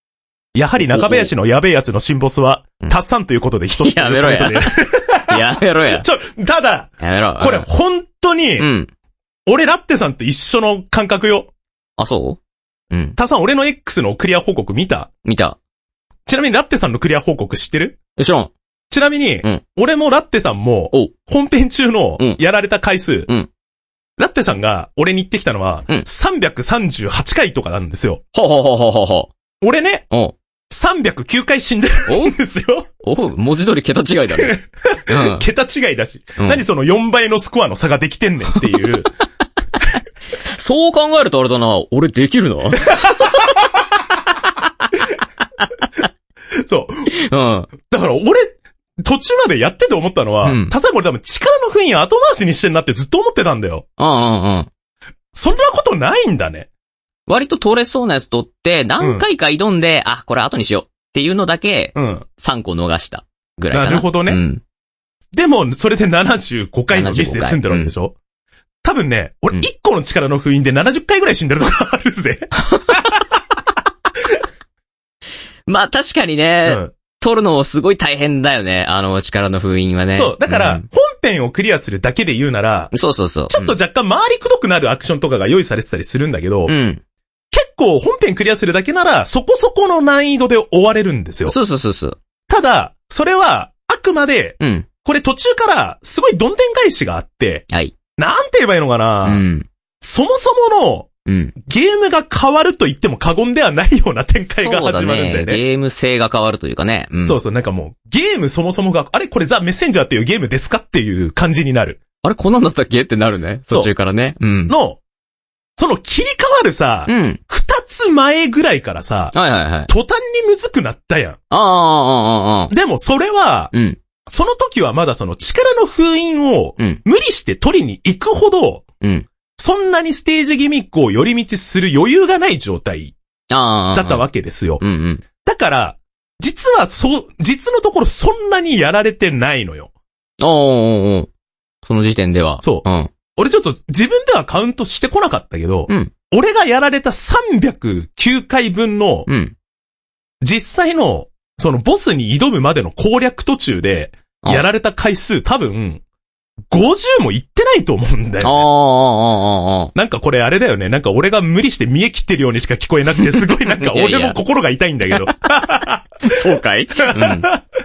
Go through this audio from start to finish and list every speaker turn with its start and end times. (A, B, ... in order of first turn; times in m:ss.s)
0:00.5-0:08.7 A
0:00.9-0:01.3 B
0:03.8-0:06.0 B
0:07.0-0:07.7 B
0:08.6-0:08.9 B
0:09.5-0:11.5 A
0:12.0-0:12.4 B
0:12.9-0:13.2 B
0:13.2-0:15.1 A
0:15.2-0:15.6 B
0:16.2-0:18.0 A
0:18.2-0:18.5 B
0:18.9-0:23.3 A
0:24.2-0:28.2 A
0:28.3-0:29.3 B
0:29.6-0:30.1 A
0:30.7-0:32.9 A
0:32.1-0:32.3 B
0:33.0-0:35.4 B
0:34.3-0:39.1 A
0:36.4-0:36.6 B
0:40.4-0:43.6 B
0:42.9-0:43.6 A
0:46.5-0:47.1 A
0:47.1-0:47.7 B
0:47.8-0:53.8 A
0:50.4-0:50.7 B
0:54.0-0:54.7 B
0:55.3-0:56.7 A
0:57.3-1:04.6 B
0:59.0-0:59.2 A
1:01.9-1:02.2 A
1:03.7-1:04.4 A
1:05.3-1:08.1 A
1:06.9-1:07.9 B
1:08.8-1:13.3 A
1:12.7-1:13.0 B
1:15.7-1:20.8 B
1:16.6-1:16.9 A
1:20.1-1:22.9 A
1:22.9-1:23.8 B
1:23.5-1:26.7 A
1:26.7-1:27.0 B
1:27.5-1:31.5 A
1:31.4-1:32.2 B
1:32.5-1:37.6 A
1:34.6-1:34.9 B
1:38.2-1:39.4 A
1:39.2-1:39.7 B
1:40.0-1:45.6 A
1:41.2-1:41.5 B
1:44.6-1:47.4 B
1:47.2-1:52.0 A
1:52.2-1:54.7 B
1:54.7-1:55.0 A
1:55.8-1:59.3 A
1:57.1-1:57.4 B
1:59.3-1:59.9 B
1:59.9-2:01.4 A
2:01.5-2:02.7 B
2:02.7-2:03.7 A
2:03.7-2:04.0 B
2:04.2-2:08.8 A
2:09.0-2:09.3 B
2:09.6-2:13.1 A
2:13.5-2:14.2 B
2:13.9-2:14.8 A
2:14.8-2:15.2 B
2:15.4-2:19.9 A
2:20.4-2:21.3 B
2:21.8-2:23.1 B
2:22.6-2:29.3 A
2:29.3-2:29.5 B
2:30.4-2:36.0 A
2:36.7-2:38.7 A
2:38.4-2:39.9 B
2:39.9-2:46.3 A
2:43.4-2:44.4 B
2:46.2-2:47.5 B
2:47.0-2:47.6 A